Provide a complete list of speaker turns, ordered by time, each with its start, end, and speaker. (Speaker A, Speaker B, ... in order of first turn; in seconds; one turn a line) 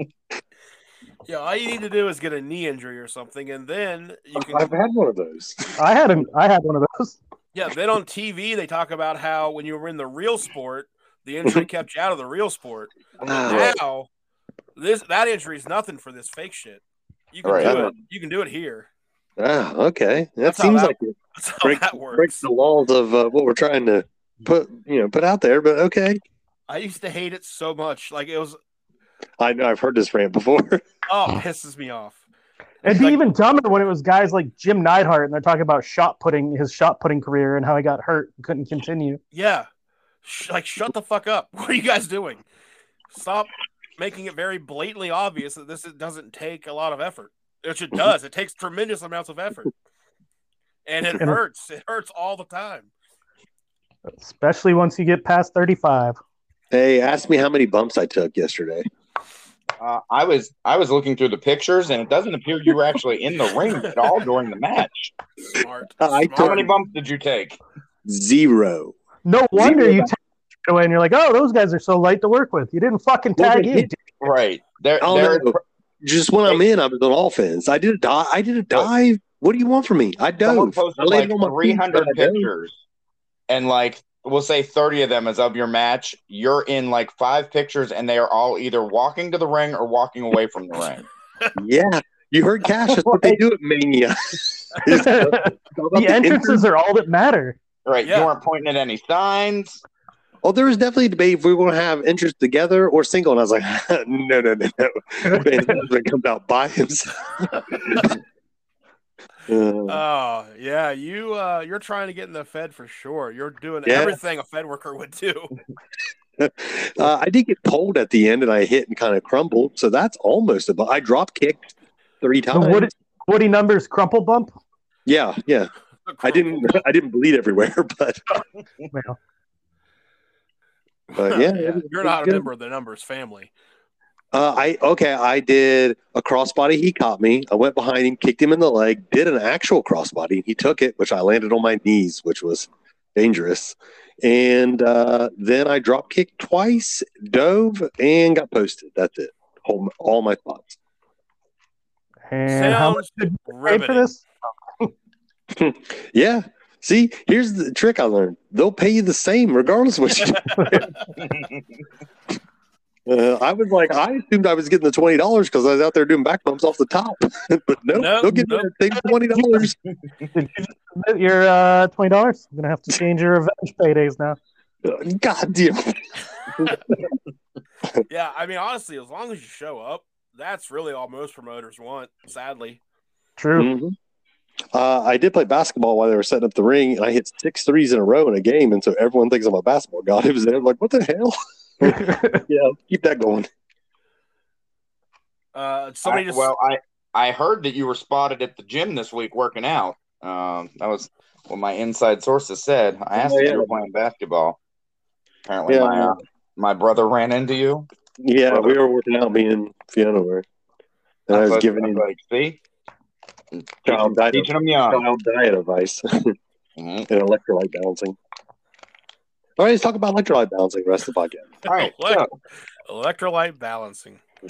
Speaker A: 1.3-4.7
Speaker B: 4.3-5.8
Speaker C: 5.8-7.2
Speaker A: 7.5-14.1
Speaker B: 13.2-13.8
Speaker A: 14.8-16.8
Speaker A: 17.3-18.9
Speaker D: 17.4-17.8
Speaker B: 17.6-17.9
Speaker B: 19.4-26.2
Speaker A: 20.4-22.4
Speaker A: 26.7-28.6
Speaker B: 29.4-30.8
Speaker A: 31.1-32.2
Speaker A: 32.8-33.2
Speaker C: 32.8-39.2
Speaker A: 39.3-39.7
Speaker A: 40.2-42.4
Speaker A: 43.1-49.7
Speaker A: 50.9-52.9
Speaker C: 54.2-56.2
Speaker B: 56.7-58.9
Speaker D: 59.8-65.1
Speaker A: 65.5-66.7
Speaker B: 66.0-66.7
Speaker D: 66.4-67.6
Speaker B: 68.0-69.0
Speaker C: 69.2-74.0
Speaker B: 69.6-70.1
Speaker B: 73.4-73.9
Speaker D: 74.2-75.6
Speaker B: 75.0-82.5
Speaker D: 80.4-82.8
Speaker D: 83.5-91.1
Speaker B: 91.6-96.7
Speaker D: 92.9-93.4
Speaker C: 94.9-97.6
Speaker D: 97.9-99.8
Speaker A: 98.0-98.3
Speaker B: 100.4-108.2
Speaker B: 109.5-110.0
Speaker A: 109.9-115.5
Speaker B: 113.9-114.2
Speaker B: 116.4-122.9
Speaker C: 122.5-124.5
Speaker B: 125.1-125.7
Speaker A: 126.1-126.8
Speaker B: 126.2-128.2
Speaker C: 128.9-129.2
Speaker B: 131.2-132.5
Speaker A: 131.2-133.5
Speaker B: 134.3-150.8
Speaker C: 152.3-154.2
Speaker A: 152.5-154.1
Speaker B: 155.5-160.9
Speaker A: 160.2-161.0
Speaker B: 163.1-169.8
Speaker A: 167.9-168.7
Speaker C: 169.3-169.7
Speaker C: 170.3-174.4
Speaker B: 174.8-177.1
Speaker A: 178.1-182.8
Speaker C: 183.4-183.7
Speaker B: 183.6-183.9
Speaker B: 184.7-193.5
Speaker C: 191.8-192.4
Speaker A: 195.6-196.5
Speaker D: 196.1-204.6
Speaker B: 203.1-203.7
Speaker D: 205.5-207.9
Speaker B: 205.7-206.2
Speaker B: 208.2-210.4
Speaker D: 208.5-208.8
Speaker B: 211.3-212.0
Speaker D: 211.3-212.6
Speaker D: 213.6-215.0
Speaker B: 213.8-216.3
Speaker D: 216.8-217.1
Speaker B: 217.1-218.2
Speaker B: 219.6-221.6
Speaker D: 221.7-222.3
Speaker A: 221.7-222.3
Speaker A: 222.9-224.2